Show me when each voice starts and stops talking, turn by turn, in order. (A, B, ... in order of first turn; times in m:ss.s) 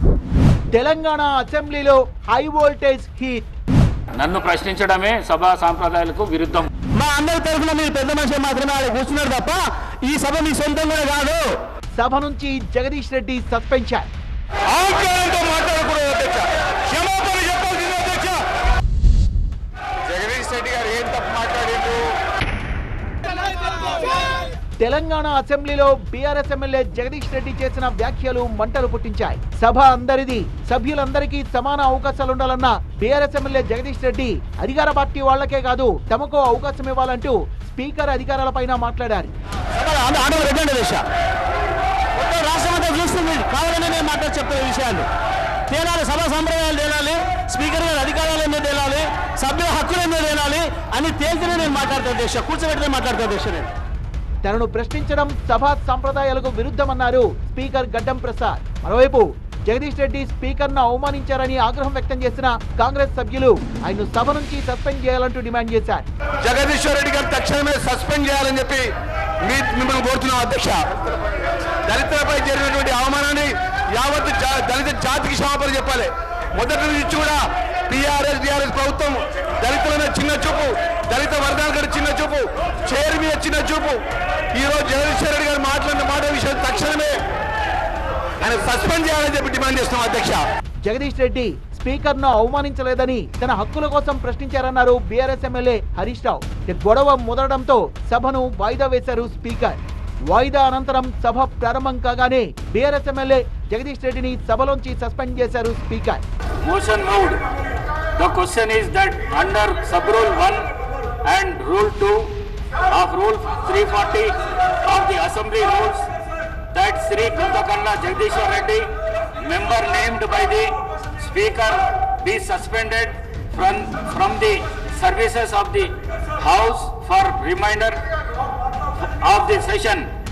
0:00.7-0:03.4 A
0:04.1-0:06.7 B
0:06.9-0:11.6 C
0:11.9-0:14.1 A
0:14.7-0:18.4 D
0:20.1-0:22.1 D
0:24.8-0:39.3 A
0:39.7-0:41.0 C
0:42.2-0:45.1 C
0:45.7-0:53.7 C
0:54.4-1:06.0 A
1:06.4-1:10.9 D
1:11.9-1:24.0 D
1:24.5-1:27.2 D
1:28.4-1:30.4 D
1:30.8-1:46.2 A
1:46.6-1:47.4 B
1:48.2-1:50.7 B
1:51.2-1:56.1 B
1:56.7-2:08.0 B
2:09.0-2:10.1 B